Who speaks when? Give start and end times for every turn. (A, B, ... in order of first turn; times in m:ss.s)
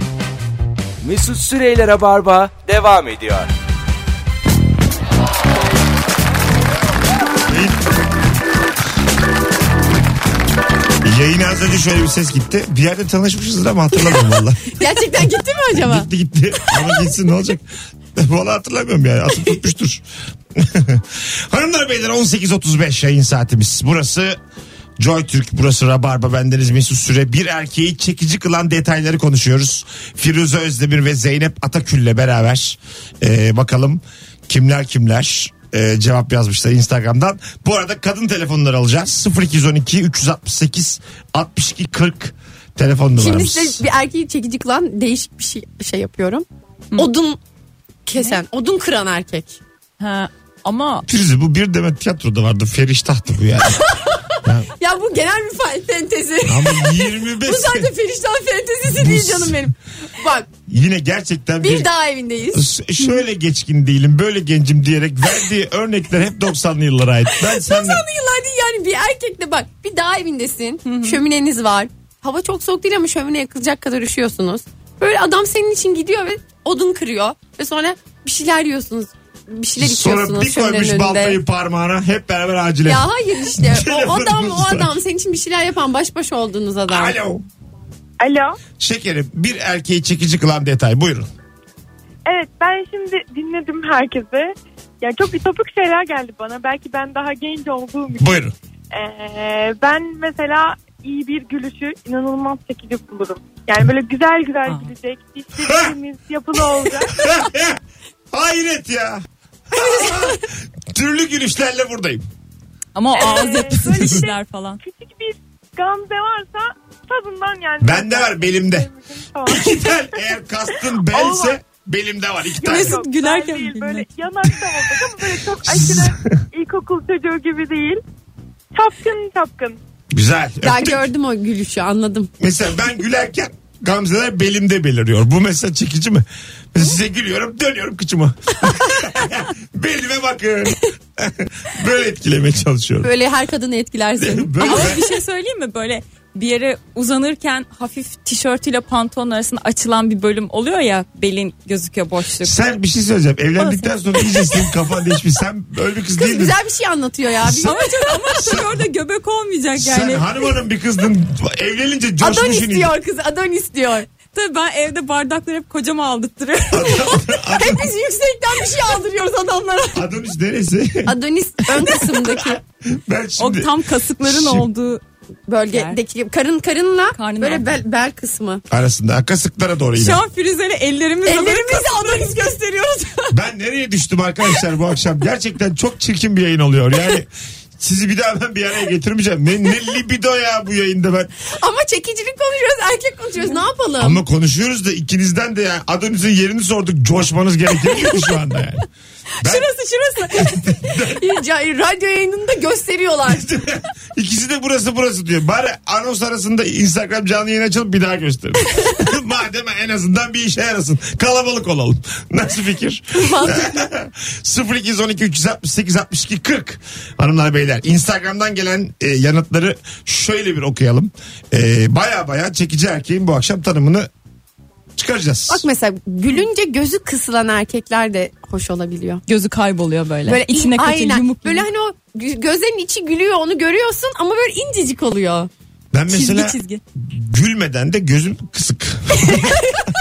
0:01.0-0:03.5 A
0:07.5-0:07.8 B
0:11.0-0:14.8 B
0:14.7-0:16.1 C
0:15.7-0:20.0 B
0:20.5-0:24.4 B
0:25.0-0:43.8 B
0:43.2-0:47.4 C
0:48.0-0:49.6 C
0:50.0-0:51.1 D
0:51.1-0:54.7 B
0:53.8-1:00.5 C
0:56.4-0:57.9 B
0:58.9-0:59.7 B
1:00.7-1:01.9 B
1:01.6-1:02.7 C
1:02.5-1:08.0 B
1:07.4-1:21.4 C
1:10.8-1:11.2 D
1:19.8-1:25.0 B
1:22.8-1:27.2 C
1:26.9-1:27.4 B
1:28.2-1:28.6 E
1:28.8-1:31.3 B
1:32.2-1:38.4 E
1:38.2-1:38.5 B
1:38.9-1:47.2 E
1:44.6-1:44.9 D
1:45.6-1:45.9 B
1:47.1-1:47.8 B
1:48.3-1:52.2 B
1:52.9-1:54.8 D
1:53.1-1:59.8 E
1:53.8-1:54.2 B
1:57.8-1:58.9 B
1:59.4-2:03.0 B
2:01.1-2:01.6 E
2:02.6-2:04.1 D
2:02.6-2:08.0 E
2:05.6-2:06.4 B
2:08.7-2:09.8 E
2:10.1-2:11.0 B
2:10.6-2:12.3 C
2:12.4-2:23.1 B
2:23.0-2:25.0 C
2:24.2-2:25.0 B
2:24.6-2:32.6 D
2:32.4-2:36.6 B
2:36.2-2:38.5 C
2:37.4-2:37.7 B
2:37.6-2:40.3 D
2:38.4-2:38.7 B
2:39.8-2:42.9 B
2:42.2-2:44.1 C
2:44.3-2:47.0 D
2:46.7-2:47.9 B
2:47.0-2:50.0 C
2:49.9-2:51.2 B
2:51.0-2:52.6 C
2:51.7-2:54.6 B
2:53.4-2:55.0 D
2:55.5-2:58.6 C
2:55.7-2:56.0 D
2:57.1-2:57.7 D
2:58.7-3:00.2 B
2:59.9-3:02.9 D
3:01.2-3:03.3 C
3:03.3-3:11.3 B
3:11.5-3:14.2 C
3:14.0-3:18.8 B
3:19.4-3:19.7 B
3:19.4-3:20.6 D
3:20.4-3:21.2 B
3:20.9-3:23.4 C
3:23.2-3:44.1 B
3:33.1-3:33.8 C
3:45.0-3:45.6 B
3:45.5-3:49.2 C
3:49.3-3:51.6 D
3:50.2-3:55.5 C
3:55.9-3:59.7 B
3:56.1-3:56.8 D